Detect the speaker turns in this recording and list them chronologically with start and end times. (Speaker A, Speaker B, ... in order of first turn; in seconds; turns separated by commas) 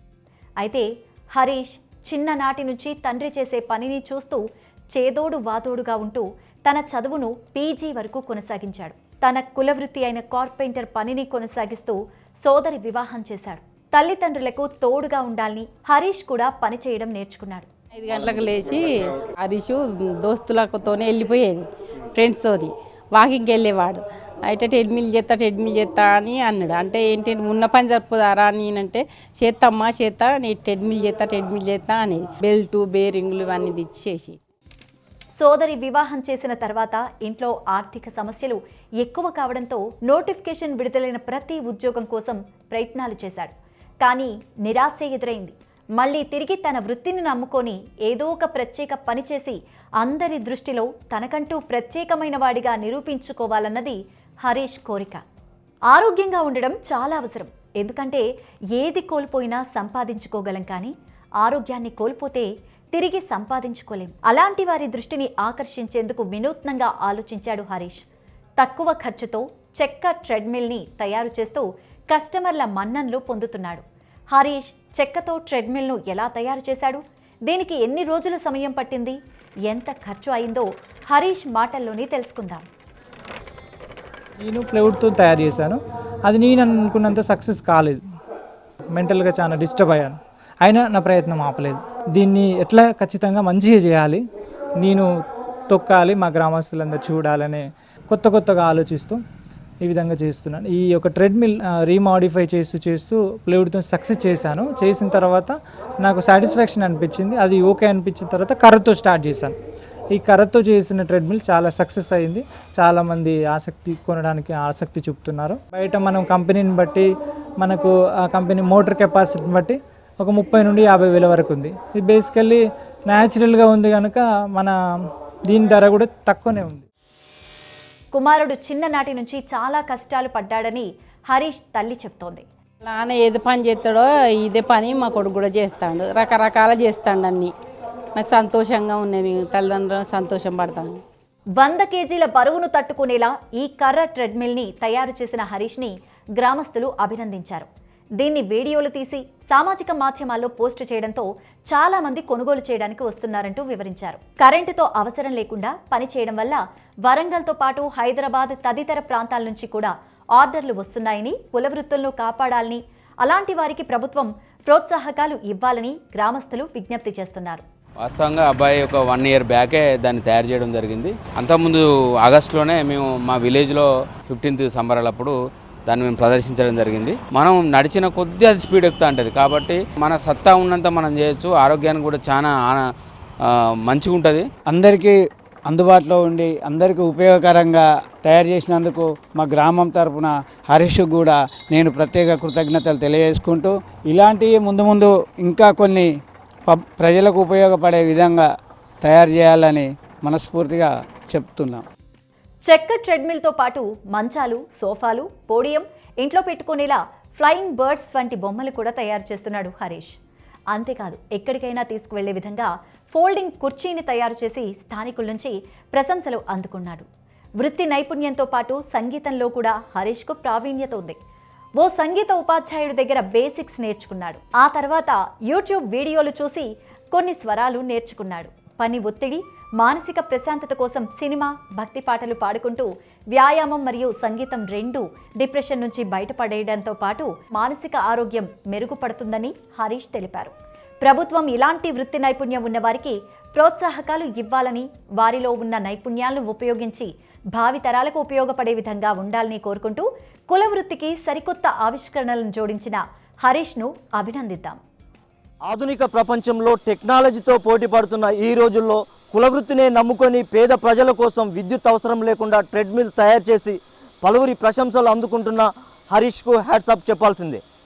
Speaker A: 0.6-17.7, Speaker B: 17.9-34.4, Speaker A: 35.4-55.2, Speaker A: 55.9-58.2, Speaker A: 58.7-68.0, Speaker A: 68.6-79.2, Speaker A: 79.7-82.7, Speaker C: 84.4-88.0, Speaker C: 88.9-94.2, Speaker C: 94.8-95.1, Speaker C: 95.7-99.2, Speaker C: 99.8-109.5, Speaker C: 110.1-117.1, Speaker C: 117.6-124.7, Speaker C: 125.5-126.8, Speaker A: 128.1-132.4, Speaker B: 132.8-137.5, Speaker B: 138.2-141.0, Speaker A: 141.6-147.7, Speaker A: 148.2-167.6, Speaker D: 168.0-175.3, Speaker D: 175.9-182.8, Speaker D: 183.4-184.4, Speaker E: 184.7-185.2, Speaker E: 185.7-196.1, Speaker E: 196.7-198.5, Speaker E: 199.0-201.8, Speaker A: 202.6-210.1, Speaker A: 210.7-217.1, Speaker A: 217.6-221.2, Speaker A: 221.8-254.8, Speaker F: 255.6-267.6